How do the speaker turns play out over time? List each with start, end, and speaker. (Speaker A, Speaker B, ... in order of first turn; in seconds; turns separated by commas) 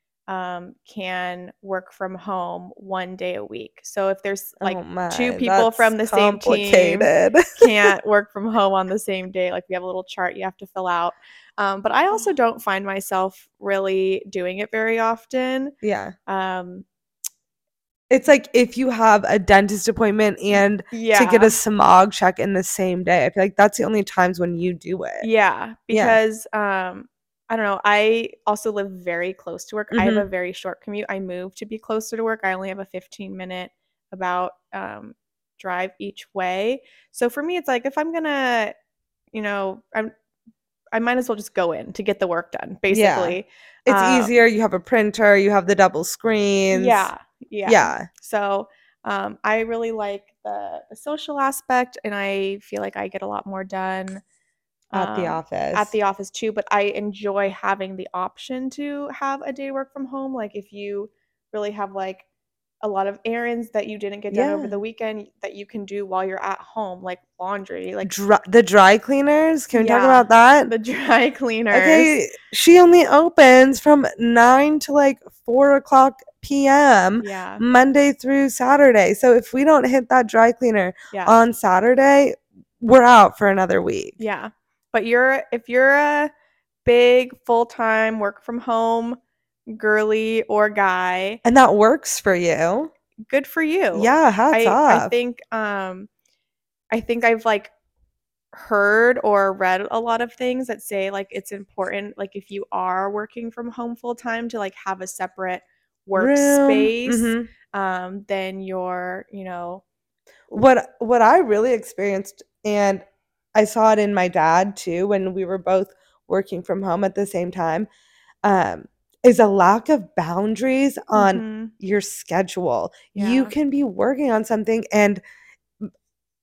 Speaker A: 0.3-15.7, Speaker B: 4.6-7.7, Speaker B: 15.8-16.1, Speaker A: 16.3-16.9, Speaker B: 18.1-25.2, Speaker A: 20.5-21.5, Speaker A: 25.2-38.7, Speaker B: 25.9-26.2, Speaker B: 29.9-30.2, Speaker A: 39.3-40.1, Speaker A: 40.9-44.3, Speaker B: 42.9-47.1, Speaker A: 46.7-54.2, Speaker B: 47.6-48.1, Speaker A: 54.9-62.2, Speaker B: 54.9-55.9, Speaker A: 62.8-68.1, Speaker B: 64.3-64.8, Speaker B: 68.0-70.7, Speaker A: 69.7-72.2, Speaker B: 71.7-84.2, Speaker A: 77.2-77.6, Speaker A: 81.1-81.4, Speaker A: 84.2-86.3, Speaker A: 86.8-91.4, Speaker B: 91.4-92.9, Speaker A: 93.3-96.1, Speaker B: 93.9-95.1, Speaker A: 96.9-97.7, Speaker A: 98.5-109.8, Speaker B: 106.2-107.5, Speaker B: 110.5-113.0, Speaker B: 113.5-117.9, Speaker B: 118.4-125.2, Speaker A: 121.1-121.7, Speaker A: 123.1-123.5